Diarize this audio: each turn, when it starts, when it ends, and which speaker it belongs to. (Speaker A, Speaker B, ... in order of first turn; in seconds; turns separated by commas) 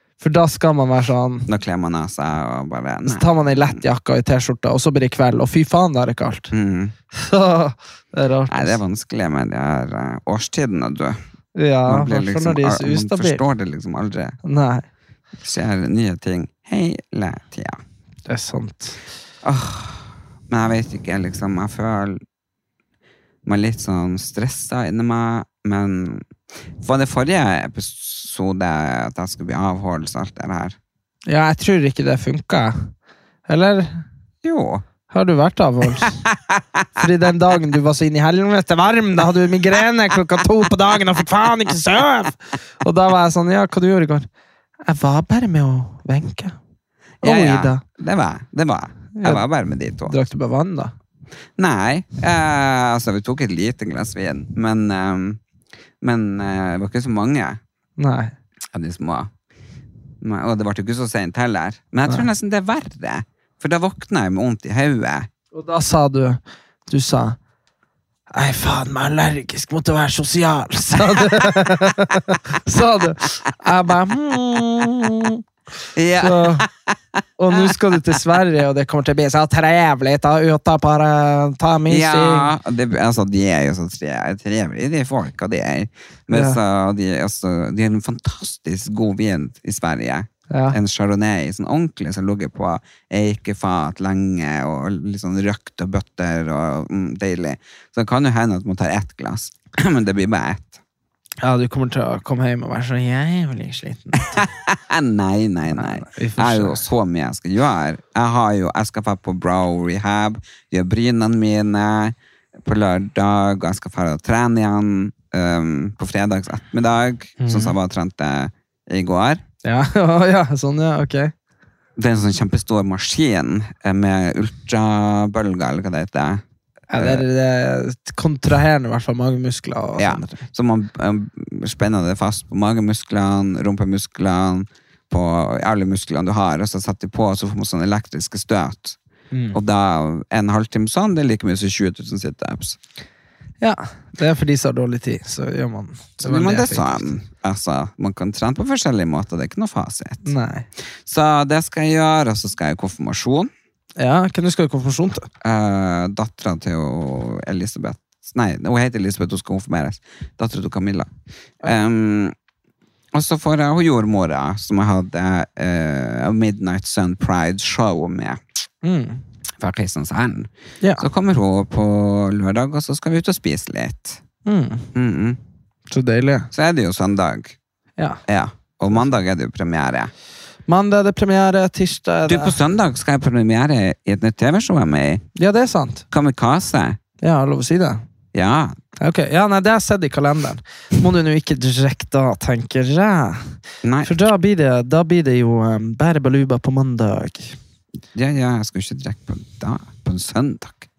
Speaker A: 0.2-1.5, Speaker B: 1.5-3.8, Speaker A: 3.1-6.5, Speaker B: 6.5-6.9, Speaker A: 7.1-8.8, Speaker B: 8.5-11.2, Speaker A: 11.6-13.4, Speaker B: 11.9-14.4, Speaker A: 14.4-14.8, Speaker B: 15.4-17.8, Speaker A: 18.3-19.0, Speaker B: 19.4-22.2, Speaker B: 23.5-26.2, Speaker B: 26.8-30.8, Speaker A: 31.3-32.9, Speaker A: 33.5-34.0, Speaker B: 34.4-34.8, Speaker A: 35.1-36.2, Speaker A: 37.0-44.3, Speaker A: 44.9-46.6, Speaker A: 47.2-47.8, Speaker B: 47.2-50.1, Speaker A: 49.2-49.4, Speaker A: 50.1-50.9, Speaker B: 51.6-55.4, Speaker B: 56.0-57.6, Speaker A: 58.0-58.3, Speaker B: 58.7-59.3, Speaker B: 60.2-65.3, Speaker A: 65.5-67.4, Speaker A: 68.3-75.4, Speaker B: 76.0-76.9, Speaker A: 76.2-76.7, Speaker A: 77.4-82.5, Speaker B: 81.9-100.8, Speaker A: 86.3-86.6, Speaker A: 90.5-90.8, Speaker A: 101.4-104.3, Speaker B: 104.2-119.4, Speaker A: 105.7-106.8, Speaker A: 117.4-117.7, Speaker A: 119.6-121.3, Speaker B: 122.0-126.4, Speaker A: 126.9-130.4, Speaker B: 127.0-127.2, Speaker B: 130.0-139.0, Speaker A: 139.3-139.6, Speaker B: 139.5-142.8, Speaker A: 143.6-147.2, Speaker B: 146.2-150.3, Speaker A: 150.2-150.7, Speaker B: 151.1-153.5, Speaker A: 154.0-155.3, Speaker B: 155.4-161.1, Speaker B: 161.6-162.3, Speaker B: 163.1-168.4, Speaker A: 168.8-169.2, Speaker B: 169.6-174.2, Speaker A: 174.5-174.9, Speaker B: 174.9-175.4, Speaker A: 175.9-176.5, Speaker B: 176.5-177.6, Speaker B: 178.3-180.1, Speaker A: 180.7-182.6, Speaker B: 182.3-185.2, Speaker A: 185.4-186.0, Speaker B: 186.1-187.0, Speaker A: 187.2-188.0, Speaker B: 188.3-188.8, Speaker A: 189.0-197.6, Speaker B: 193.8-194.3, Speaker B: 198.1-200.9